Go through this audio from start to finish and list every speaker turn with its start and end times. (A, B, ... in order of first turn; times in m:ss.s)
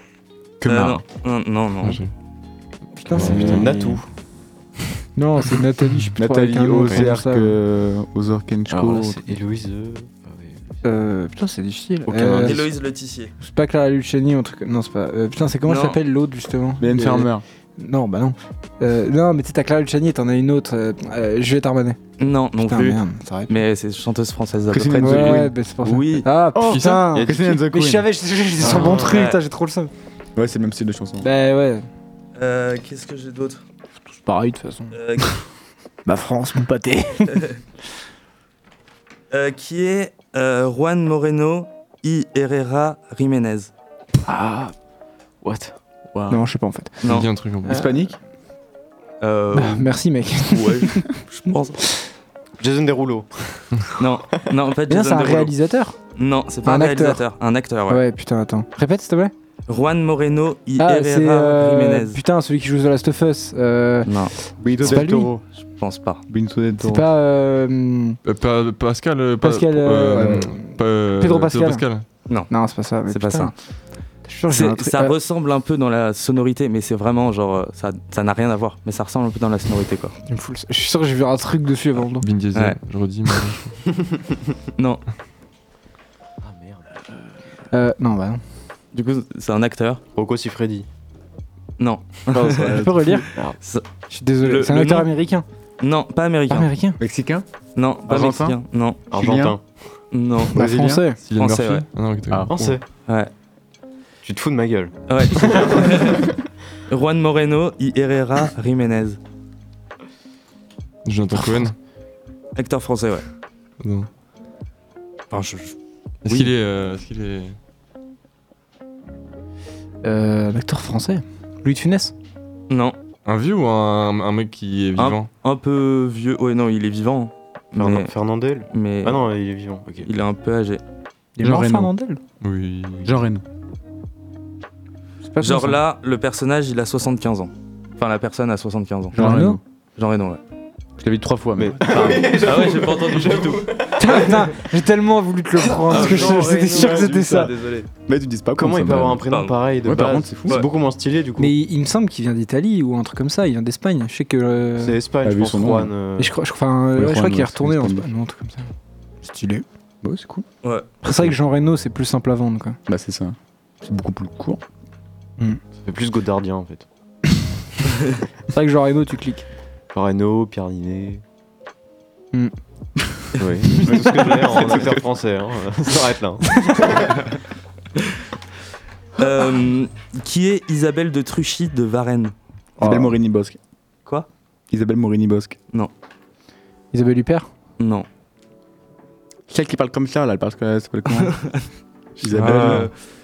0:00.6-0:01.0 A
0:00.6-0:02.0 B
0:01.8-0:02.1 C
0:03.0-0:03.9 D
0:03.1-0:03.7 C
0:03.2-0:03.7 A
0:03.2-0:04.0 E
0:05.2-0:07.6 D
0:06.2-0:09.2 A
0:08.7-0:10.8 E
0:10.8-0:12.6 D
0:12.1-0:12.7 E
0:12.4-0:13.3 B
0:13.4-0:22.0 D
0:15.7-0:16.0 B
0:16.8-0:17.4 A
0:22.2-0:26.3 B
0:22.6-0:23.5 D
0:24.7-0:25.6 A
0:25.0-0:29.9 D
0:26.6-0:28.1 A
0:26.6-0:27.0 C
0:27.1-0:27.5 E
0:28.6-0:29.2 E
0:28.9-0:29.4 B
0:30.4-0:31.3 A
0:31.2-0:31.9 D
0:32.4-0:33.6 B
0:34.1-0:35.0 D
0:34.9-0:35.4 B
0:36.1-0:37.5 D
0:37.3-0:37.6 B
0:39.3-0:43.7 B
0:44.3-0:44.7 D
0:45.4-0:45.8 E
0:46.1-0:46.5 A
0:46.3-0:48.0 D
0:47.0-0:47.8 C
0:47.6-0:48.2 A
0:49.2-0:49.9 B
0:49.6-0:51.1 D
0:50.5-0:51.8 B
0:52.6-0:53.8 E
0:54.0-0:55.5 B
0:54.9-0:56.0 D
0:56.2-0:58.0 B
0:56.6-0:57.2 D
0:57.9-0:59.3 D
0:59.7-1:02.2 B
1:00.8-1:05.3 D
1:04.1-1:04.3 B
1:04.6-1:05.4 A
1:05.6-1:06.2 B
1:06.3-1:07.1 A
1:06.8-1:08.2 D
1:08.2-1:12.0 C
1:09.4-1:11.8 D
1:12.3-1:13.5 B
1:12.5-1:13.5 D
1:14.2-1:15.1 D
1:14.5-1:20.2 B
1:20.3-1:22.3 D
1:22.2-1:23.8 C
1:24.8-1:25.0 B
1:26.4-1:26.9 E
1:27.7-1:28.4 D
1:28.9-1:30.0 B
1:30.2-1:30.9 E
1:31.8-1:32.8 B
1:32.3-1:33.2 A
1:32.8-1:33.3 D
1:34.1-1:35.4 D
1:34.4-1:35.1 B
1:35.8-1:36.7 B
1:36.5-1:37.0 D
1:37.0-1:37.4 A
1:37.8-1:39.0 B
1:38.0-1:38.6 A
1:39.1-1:39.6 A
1:39.1-1:39.6 E
1:40.1-1:40.6 B
1:40.5-1:41.0 A
1:40.6-1:41.2 D
1:41.2-1:42.8 C
1:41.4-1:41.9 B
1:42.3-1:42.7 A
1:42.5-1:42.8 E
1:44.2-1:46.3 E
1:45.1-1:46.3 B
1:46.9-1:49.2 B
1:51.0-1:51.7 C
1:52.6-1:53.2 B
1:53.8-1:54.1 C
1:55.3-1:55.8 B
1:56.2-1:57.6 C
2:00.0-2:02.1 D
2:02.7-2:03.0 B
2:03.2-2:05.3 C
2:05.0-2:08.1 B
2:07.8-2:10.1 E
2:08.7-2:09.2 B
2:10.0-2:10.8 B
2:11.4-2:12.2 D
2:11.4-2:11.9 A
2:12.4-2:13.1 C
2:13.0-2:13.4 A
2:15.3-2:15.8 D
2:15.4-2:19.2 B
2:19.1-2:19.6 D
2:19.1-2:19.6 A
2:20.0-2:20.4 B
2:21.0-2:22.4 A
2:21.6-2:24.3 E
2:21.9-2:24.2 B
2:24.0-2:27.5 D
2:25.7-2:27.8 E
2:25.9-2:27.6 B
2:28.1-2:30.6 A
2:28.6-2:31.5 E
2:29.3-2:29.6 B
2:31.4-2:35.0 D
2:34.8-2:36.4 E
2:35.2-2:35.9 A
2:36.2-2:39.6 D
2:37.0-2:38.1 A
2:40.0-2:40.5 A
2:41.0-2:42.8 D
2:42.9-2:44.6 A
2:45.8-2:46.9 E
2:48.5-2:49.5 D
2:49.9-2:51.2 E
2:53.4-2:57.2 E
2:53.8-2:55.0 A
2:59.2-3:02.3 B
3:02.8-3:03.6 A
3:04.7-3:05.6 A
3:06.9-3:07.5 D
3:07.8-3:08.1 B
3:09.5-3:11.4 A
3:11.2-3:11.6 B
3:12.2-3:12.9 A
3:12.3-3:12.9 C
3:12.3-3:13.0 B